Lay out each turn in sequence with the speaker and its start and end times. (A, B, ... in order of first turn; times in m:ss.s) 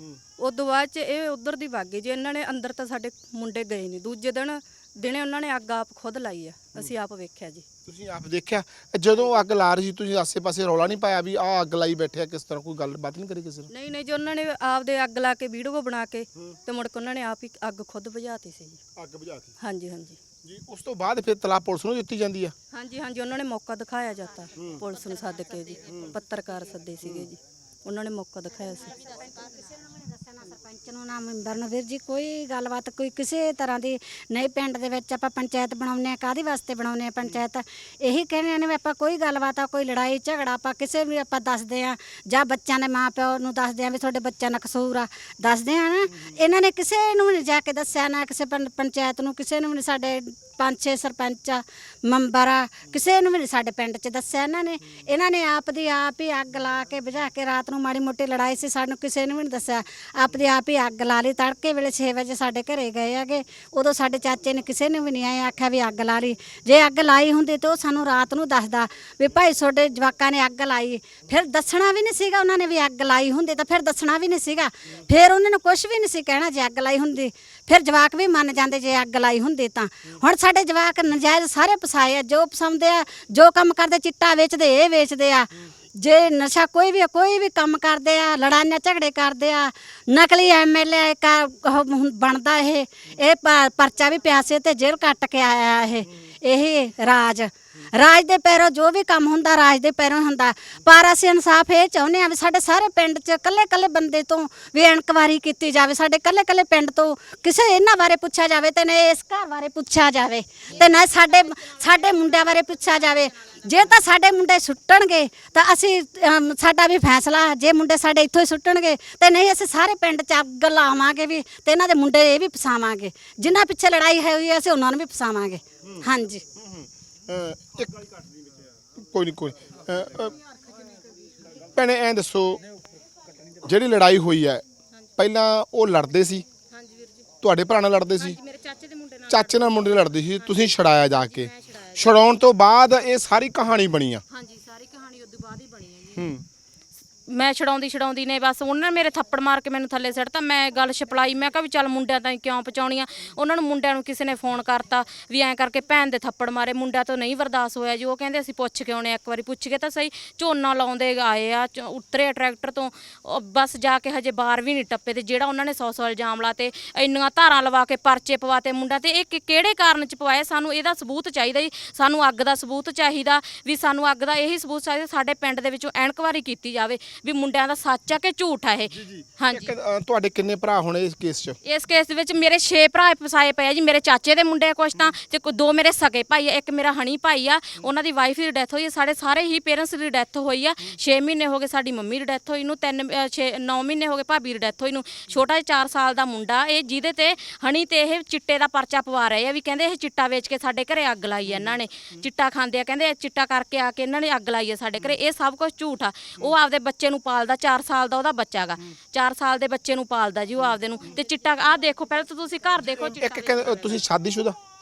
0:00.4-0:07.6 A
0:07.9-0:13.7 B
0:13.7-0:18.8 A
0:19.0-0:19.5 B
0:19.6-0:20.2 A
0:20.4-0:22.5 B
0:22.7-0:28.9 A
0:24.6-0:24.9 B
0:25.8-0:26.2 B
0:27.0-0:27.3 B
0:29.0-2:06.4 C
2:06.6-2:08.1 B
2:09.0-2:10.3 B
2:11.7-2:12.6 B
2:13.6-2:14.6 B
2:15.2-2:16.4 B
2:16.7-2:17.2 D
2:17.4-2:18.4 B
2:18.2-2:22.1 D
2:19.3-2:24.2 B
2:24.3-2:26.2 D
2:26.2-2:26.4 B
2:27.3-2:59.7 D
2:59.0-3:01.6 B
3:01.6-3:34.0 D
3:32.8-3:34.6 B